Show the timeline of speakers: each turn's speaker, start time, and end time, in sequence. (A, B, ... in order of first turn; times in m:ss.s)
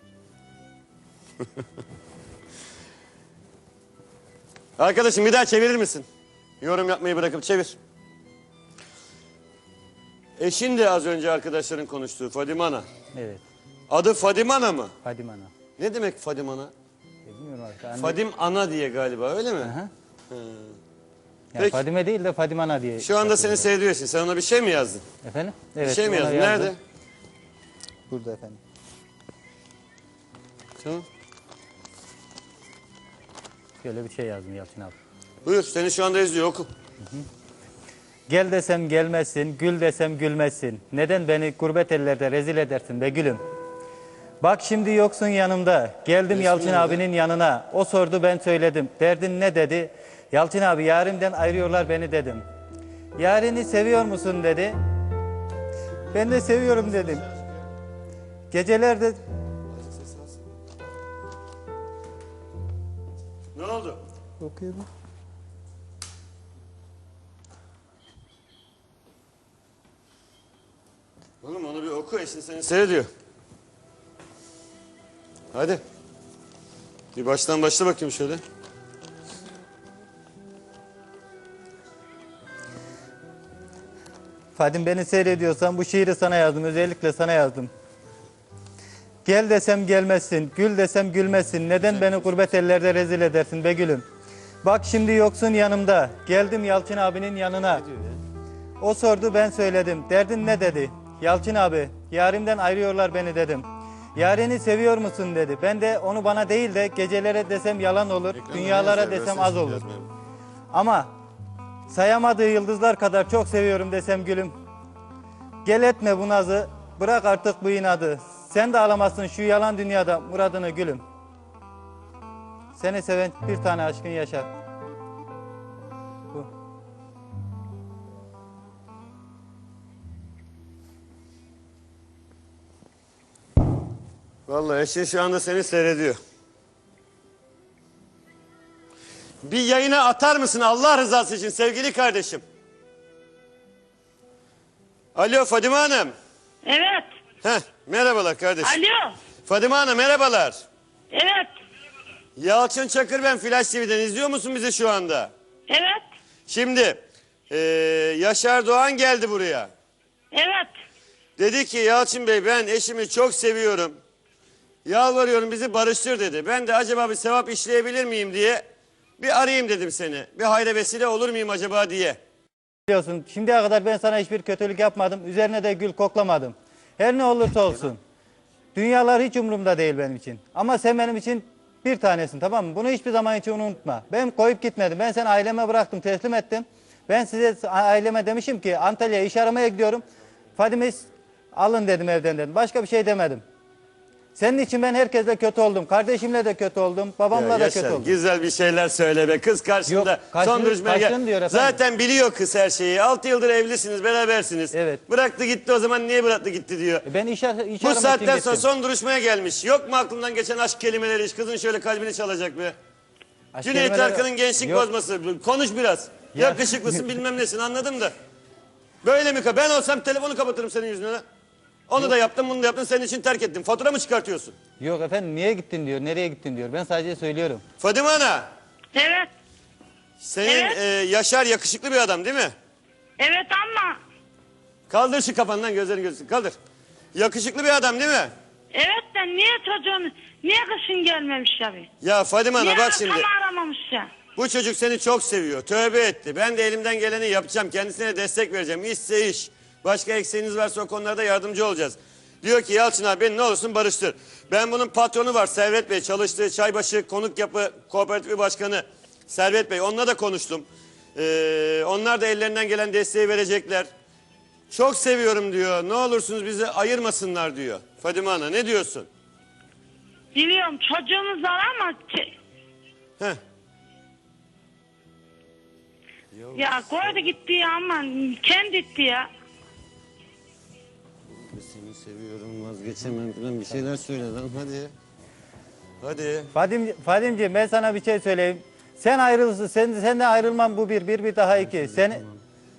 0:04.8-0:06.1 A
0:06.6-0:07.8 A
0:10.4-0:12.8 A
0:13.1-0:13.4 B
0:13.9-0:14.9 A
0:15.0-0:15.5 B
0:15.8-0:16.7 A
0:17.2-0:18.2 B
0:18.0-0:19.7 A
0:19.6-0:19.9 B
0:20.3-0:20.7 A
0:21.5-0:23.7 B
0:23.0-0:25.0 A
0:25.2-0:26.7 B
0:25.8-0:26.8 A
0:28.1-0:28.6 B
0:30.8-0:31.0 A
0:33.8-0:34.9 B
0:35.4-0:36.7 A
0:38.3-0:43.4 B
0:44.4-0:52.4 B
0:46.3-0:47.0 A
0:53.2-0:54.7 B
0:56.1-0:57.2 B
0:58.5-0:59.2 B
1:03.5-1:04.0 A
1:04.4-1:04.9 B
1:11.4-1:13.1 A
1:15.5-1:15.8 A
1:17.1-1:18.4 A
1:24.6-1:27.7 B
1:29.2-1:34.0 B
1:34.6-1:37.8 B
1:38.8-1:49.8 B
1:48.3-1:50.1 A
1:50.7-1:51.1 B
1:51.9-1:54.5 B
1:55.6-2:01.0 B
2:02.8-2:04.5 B
2:14.5-2:16.2 A
2:19.4-2:22.4 A
2:25.1-2:26.1 A
2:26.6-2:27.1 C
2:27.4-2:28.8 A
2:28.6-2:29.2 C
2:29.4-2:30.6 A
2:31.1-2:31.5 C
2:32.4-2:35.3 A
2:35.7-2:36.0 C
2:36.5-2:39.7 A
2:40.3-2:40.7 C
2:41.4-2:44.0 A
2:44.8-2:48.6 A
2:49.2-2:52.2 A
2:52.9-2:58.0 B
2:58.7-3:10.0 B
3:10.6-3:13.4 B
3:14.4-3:18.2 B
3:17.3-3:27.1 A
3:19.9-3:21.8 B
3:24.7-3:25.0 B
3:27.0-3:28.7 B
3:27.8-3:32.8 A
3:33.5-3:34.8 B
3:33.6-3:38.1 A
3:36.3-3:37.0 B
3:39.0-3:41.2 A
3:41.9-3:44.5 A
3:44.8-3:47.6 B
3:47.8-3:48.5 A
3:48.9-3:49.3 C
3:50.2-3:52.5 A
3:50.4-3:50.8 C
3:53.2-3:54.0 C
3:54.9-3:56.6 A
3:57.1-3:58.3 A
3:58.7-4:01.9 C
4:02.0-4:03.2 A
4:02.6-4:04.1 C
4:04.4-4:23.9 A
4:24.7-4:29.1 A
4:30.3-4:32.3 C
4:36.3-4:37.3 A
4:36.5-4:39.3 C
4:41.3-4:44.9 A
4:46.0-4:46.5 A
4:46.5-4:52.2 B